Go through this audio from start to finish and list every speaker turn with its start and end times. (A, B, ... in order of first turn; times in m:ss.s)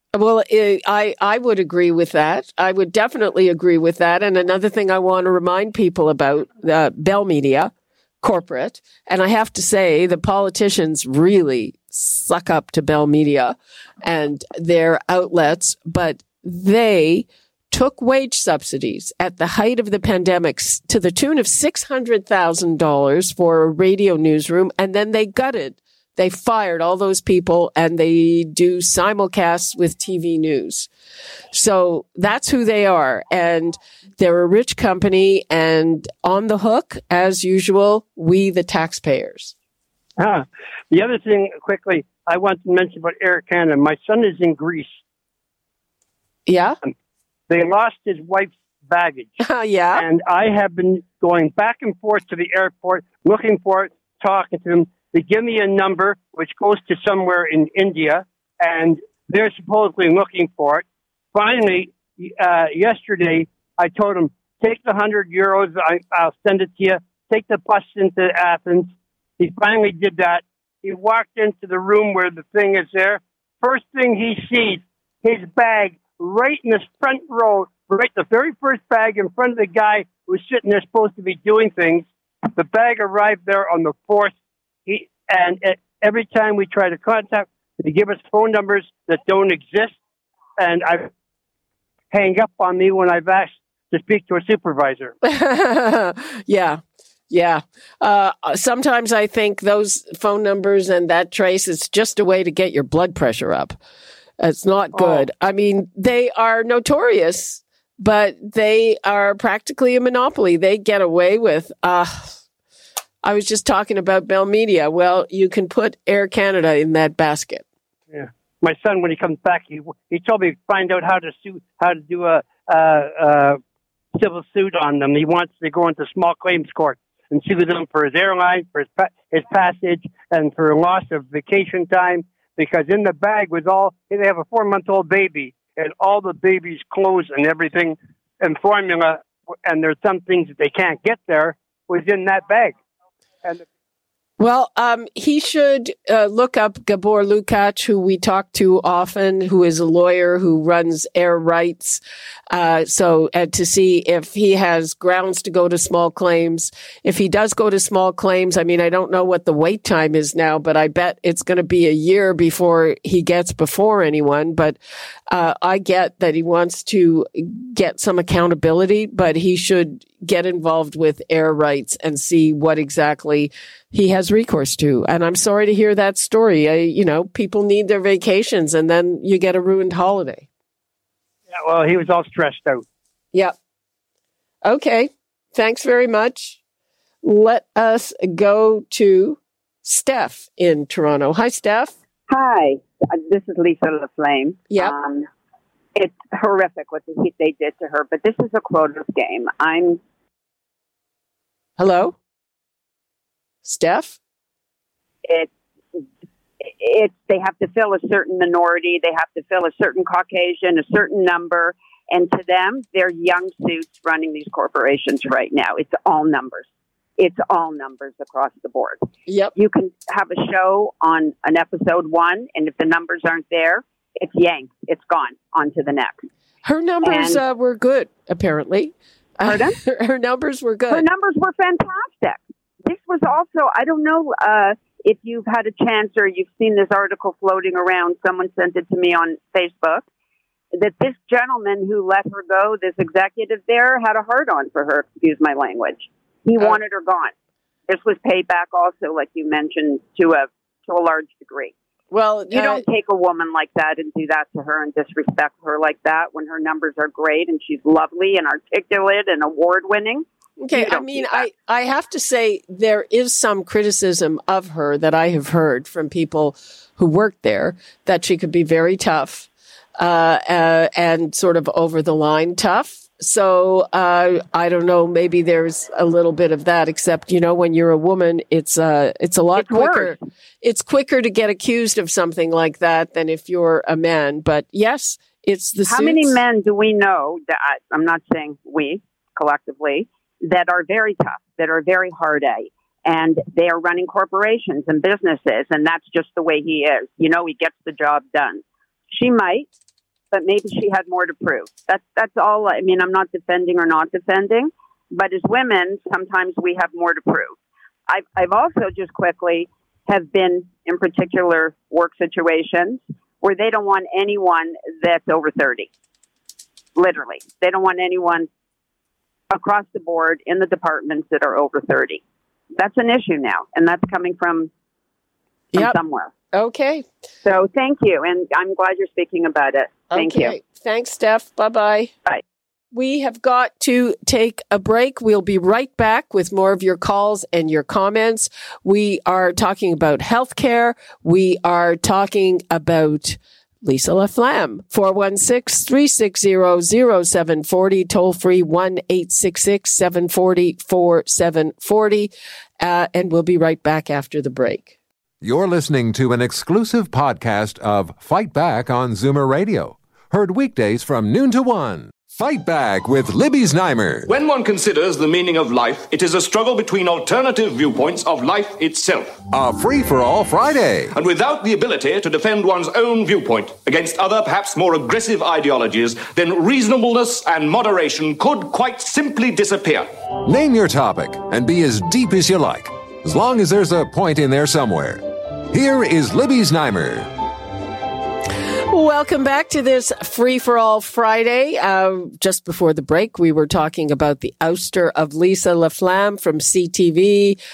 0:00.1-0:30.9 A
0:31.5-0:39.5 A
0:40.2-0:45.0 B
0:46.5-0:46.8 A
0:47.5-0:49.4 B
0:49.4-0:50.0 A
0:50.0-1:24.3 B
1:24.9-1:30.0 B
1:30.6-1:31.1 B
1:32.1-1:35.1 B
1:35.2-1:43.8 A
1:44.4-1:52.4 A
1:44.9-1:45.3 B
1:53.2-1:57.7 A
1:58.1-2:03.6 B
2:04.2-2:22.8 B
2:24.4-2:32.0 A
2:32.5-2:44.8 A
2:45.3-3:00.5 A
3:01.5-3:02.8 B
3:04.6-3:06.6 A
3:07.2-3:12.0 A
3:12.3-3:15.3 C
3:14.7-3:15.0 A
3:16.0-3:20.0 C
3:21.8-3:22.2 A
3:23.6-3:24.2 A
3:25.3-3:26.0 C
3:26.6-3:46.3 C
3:39.3-3:39.5 A
3:46.6-3:51.0 A
3:47.0-3:47.4 C
3:49.5-3:49.8 C
3:50.9-4:00.1 C
4:00.7-4:07.3 C
4:07.9-4:11.7 C
4:12.1-4:12.8 A
4:12.5-4:21.5 C
4:20.6-4:46.4 A
4:39.6-4:40.2 C
4:45.9-4:59.7 C
5:00.3-5:07.6 C
5:08.1-5:15.9 C
5:17.0-5:18.5 C
5:19.5-5:22.2 C
5:22.7-5:24.7 C
5:25.7-5:26.3 C
5:26.5-5:27.1 A
5:27.4-5:30.6 C
5:30.1-5:32.1 A
5:32.9-5:54.9 A
5:55.4-6:04.3 D
6:04.3-6:09.4 E
6:09.5-6:11.1 D
6:11.2-6:20.1 E
6:20.4-6:27.3 D
6:28.9-6:37.6 A